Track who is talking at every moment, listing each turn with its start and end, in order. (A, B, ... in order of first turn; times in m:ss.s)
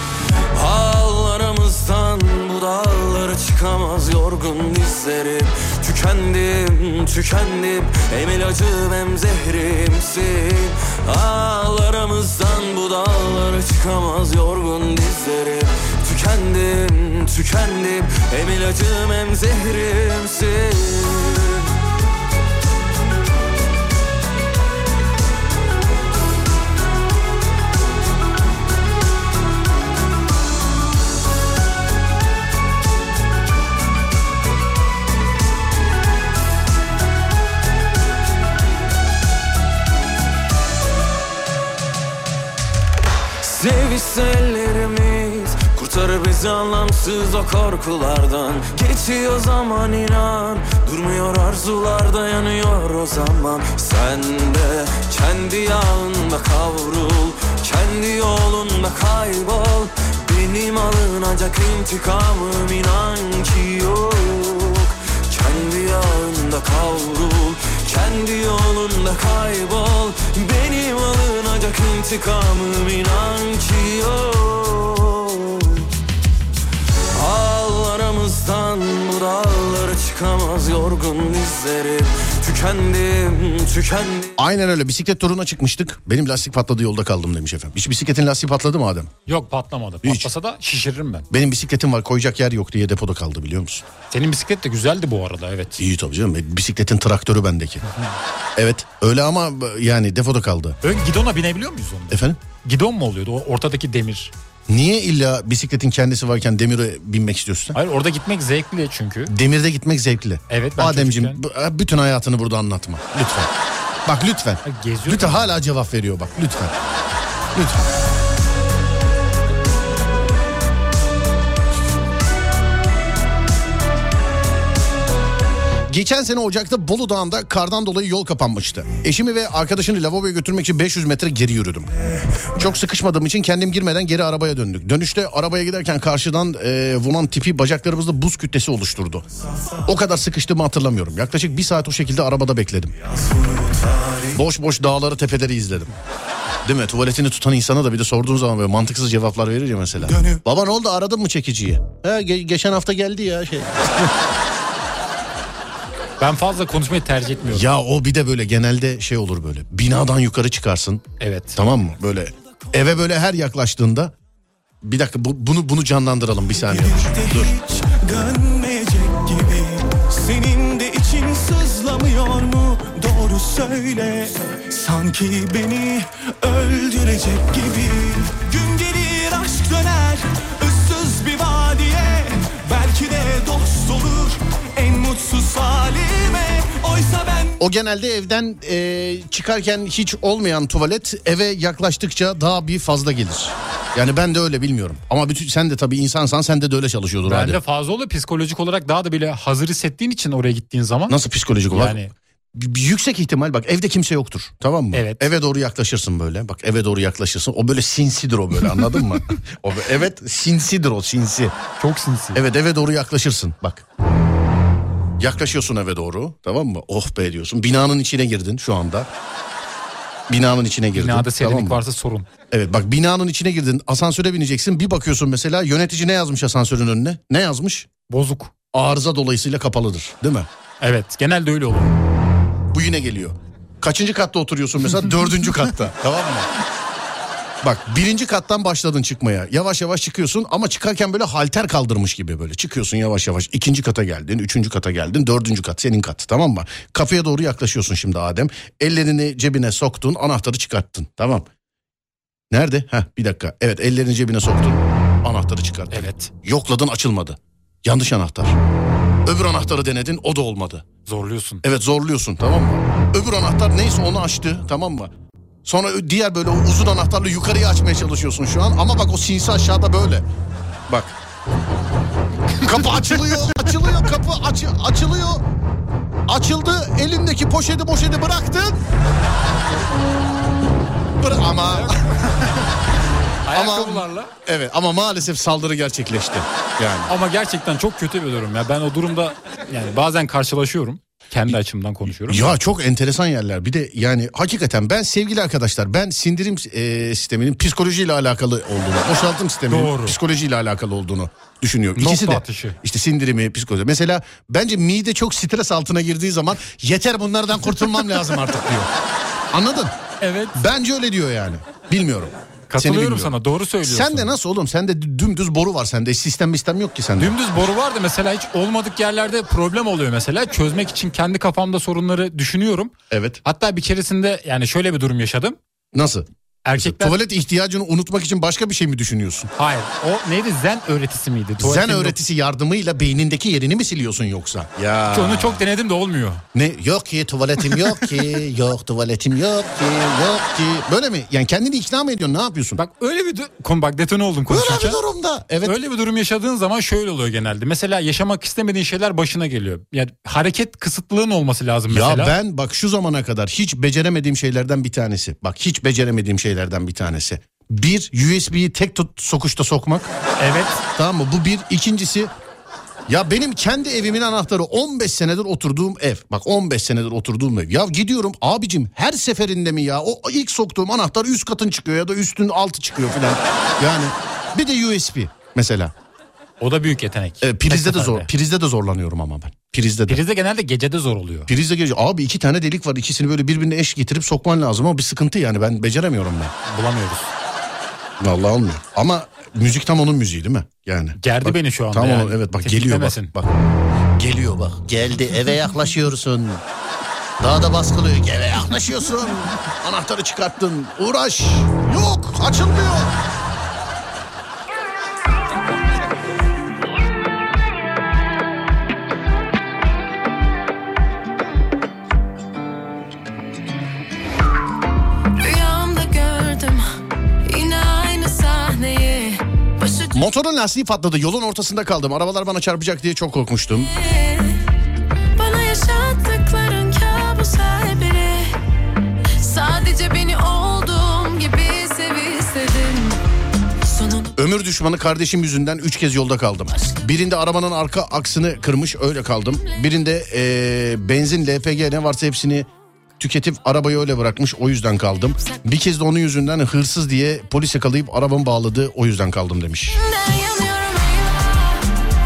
0:00.5-0:21.7 A
0:43.4-1:15.9 A
1:17.1-1:24.3 A
1:24.4-1:29.1 B
1:29.3-1:31.2 C
1:30.0-1:30.3 B
1:31.3-1:33.8 B
1:34.1-1:35.8 C
1:35.8-1:37.8 B
1:38.6-1:40.8 B
1:40.8-1:44.3 C
1:42.1-1:42.4 B
1:44.7-1:47.8 B
1:47.7-1:49.3 C
1:49.3-1:53.5 B
1:50.5-1:51.4 C
1:54.0-1:56.7 B
1:54.6-1:55.5 C
1:57.5-1:57.8 B
2:05.9-2:11.9 B
2:12.5-2:19.2 B
2:19.8-2:22.9 B
2:24.3-2:25.9 B
2:26.6-2:34.1 B
2:36.2-2:37.7 C
2:37.5-2:41.0 B
2:41.2-2:41.6 C
2:41.6-2:44.1 B
2:44.8-2:47.5 B
2:46.7-3:07.6 D
3:07.6-3:17.6 B
3:17.2-3:21.2 C
3:21.1-3:22.0 B
3:21.7-3:22.1 C
3:22.5-3:31.5 B
3:24.9-3:25.3 C
3:31.8-3:32.4 C
3:32.3-3:33.8 B
3:35.2-3:39.1 B
3:40.3-3:41.8 B
3:40.9-3:42.3 C
3:42.5-3:47.9 B
3:48.1-3:48.5 C
3:48.7-3:50.5 B
3:50.8-3:52.0 C
3:52.7-3:56.4 B
3:56.1-3:56.4 C
3:57.6-4:11.4 B
4:12.5-4:18.5 B
4:15.9-4:16.3 C
4:19.2-4:20.8 B
4:21.0-4:21.6 C
4:21.6-4:25.1 B
4:25.6-4:30.2 B
4:30.9-4:31.2 B
4:32.6-4:35.4 B
4:36.3-4:38.8 B
4:41.2-4:42.0 B
4:41.6-4:42.4 C
4:43.4-4:44.3 C
4:43.5-4:47.1 B
4:47.1-4:52.6 C
4:52.1-5:08.9 B
4:59.7-5:00.2 C
5:02.0-5:02.8 C
5:09.5-5:09.9 B
5:10.2-5:10.6 C
5:10.5-5:17.6 B
5:12.7-5:14.3 C
5:17.2-5:22.9 C
5:23.1-5:23.4 B
5:23.4-5:25.6 C
5:25.9-5:29.5 B
5:26.6-5:27.2 C
5:29.6-5:32.1 C
5:31.6-5:35.6 B
5:35.1-5:36.4 C
5:36.5-5:42.8 B
5:42.8-5:45.0 C
5:44.5-5:45.8 B
5:45.6-5:52.3 C
5:51.9-6:00.1 B
6:00.4-6:00.8 C
6:01.0-6:02.3 B
6:03.1-6:15.9 B
6:16.6-6:18.3 C
6:17.4-6:20.2 B
6:20.1-6:21.5 C
6:21.5-6:26.5 B
6:26.7-6:27.3 C
6:28.2-6:33.5 B
6:31.2-6:33.3 C
6:34.1-6:36.6 B
6:37.4-6:43.1 B
6:55.4-6:56.8 E
6:57.4-7:00.2 E
7:00.1-7:03.9 B
7:03.8-7:04.6 E
7:05.4-7:08.5 E
7:09.4-7:13.2 E
7:13.8-7:14.3 E
7:14.4-7:22.7 B
7:23.2-7:30.0 B
7:30.0-7:31.8 E